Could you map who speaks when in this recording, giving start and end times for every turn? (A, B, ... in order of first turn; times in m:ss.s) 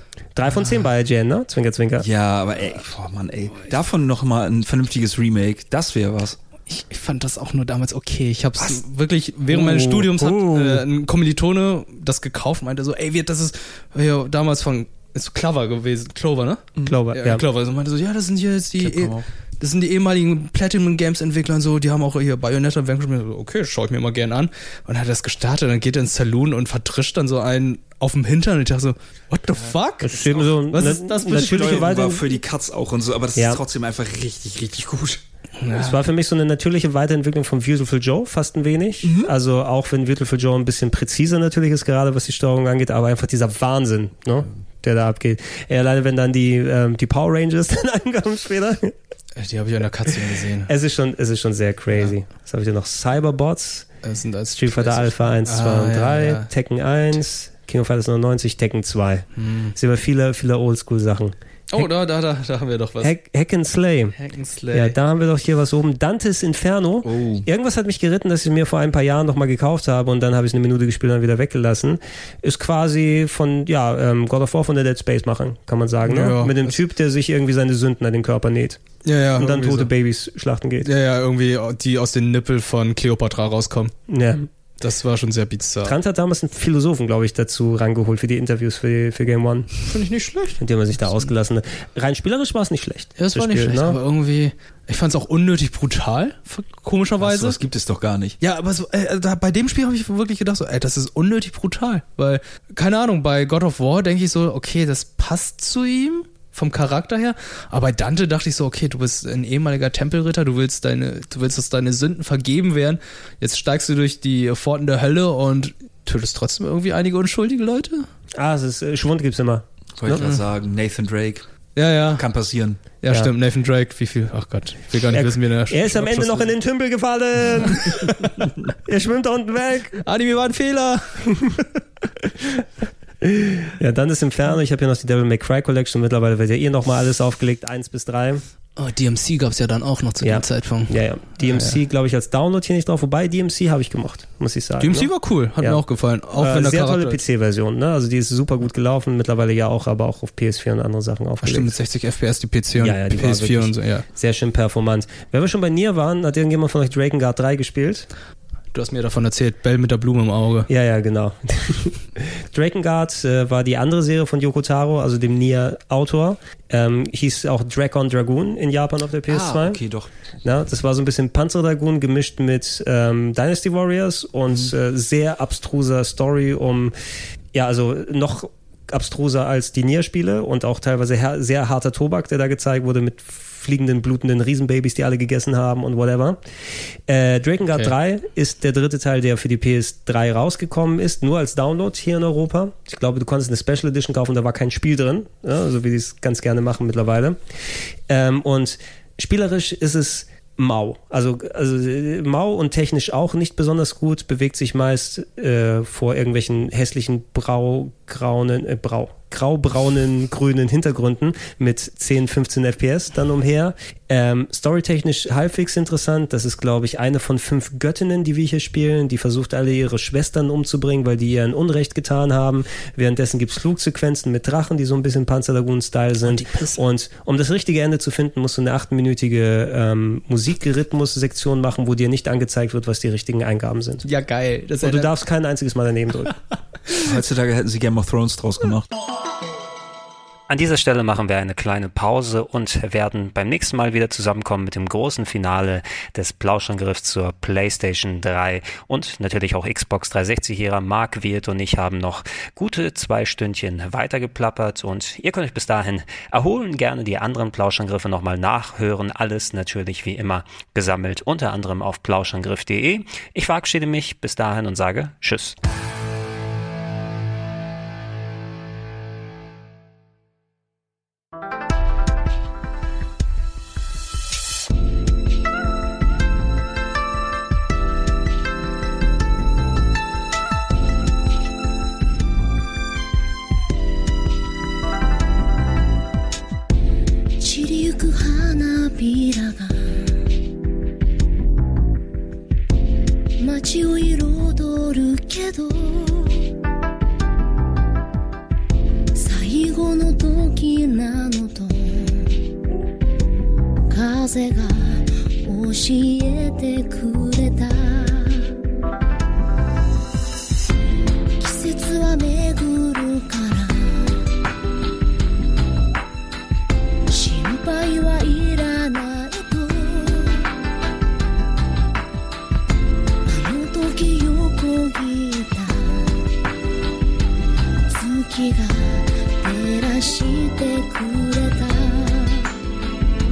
0:00.3-0:02.0 A
0:02.0-0:06.4 B
0:06.7-0:31.9 C
0:09.5-0:10.8 A
0:16.8-0:17.4 A
0:18.8-0:19.2 B
0:30.0-0:32.2 A
0:31.2-0:35.2 B
0:33.4-0:33.6 A
0:35.6-0:36.0 C
0:35.7-0:48.9 A
0:39.0-0:39.3 B
0:49.4-0:50.7 C
0:50.6-0:53.9 A
0:54.0-0:56.5 C
0:54.5-1:01.8 A
0:59.4-0:59.7 C
1:01.7-1:03.1 C
1:03.0-1:04.1 A
1:04.2-1:05.0 C
1:04.7-1:18.8 A
1:07.0-1:07.4 B
1:16.0-1:16.8 C
1:19.0-1:19.9 C
1:19.4-1:20.9 A
1:20.8-1:23.9 C
1:24.1-1:24.5 A
1:24.8-1:26.0 C
1:25.8-1:29.7 A
1:29.9-1:30.6 C
1:30.6-1:34.0 A
1:33.2-1:37.6 C
1:37.2-1:38.4 B
1:38.4-1:58.1 C
1:58.4-2:00.2 A
2:00.0-2:01.5 B
2:00.2-2:00.4 C
2:01.7-2:02.2 C
2:02.1-2:02.8 B
2:03.0-2:06.5 C
2:05.1-2:08.1 A
2:07.6-2:08.1 C
2:08.8-2:10.0 A
2:10.0-2:11.6 C
2:13.2-2:18.4 A
2:18.8-2:21.8 C
2:20.2-2:25.8 A
2:24.8-2:27.2 C
2:26.4-2:31.7 A
2:31.4-2:34.0 C
2:32.8-2:38.1 A
2:38.7-2:40.7 C
2:40.7-2:49.8 A
2:49.3-2:50.1 B
2:50.4-2:56.9 A
2:57.5-3:06.4 A
3:07.1-3:54.0 A
3:46.3-3:46.8 C
3:54.0-3:55.1 C
3:54.8-3:56.4 A
3:57.0-3:58.9 B
4:00.5-4:25.6 D
4:47.4-4:50.2 E
4:53.4-4:56.5 E
4:59.1-5:02.4 E
5:03.9-5:08.5 E
5:11.4-5:14.2 E
5:17.1-5:20.4 E
5:23.2-5:26.2 E
5:27.9-5:32.5 E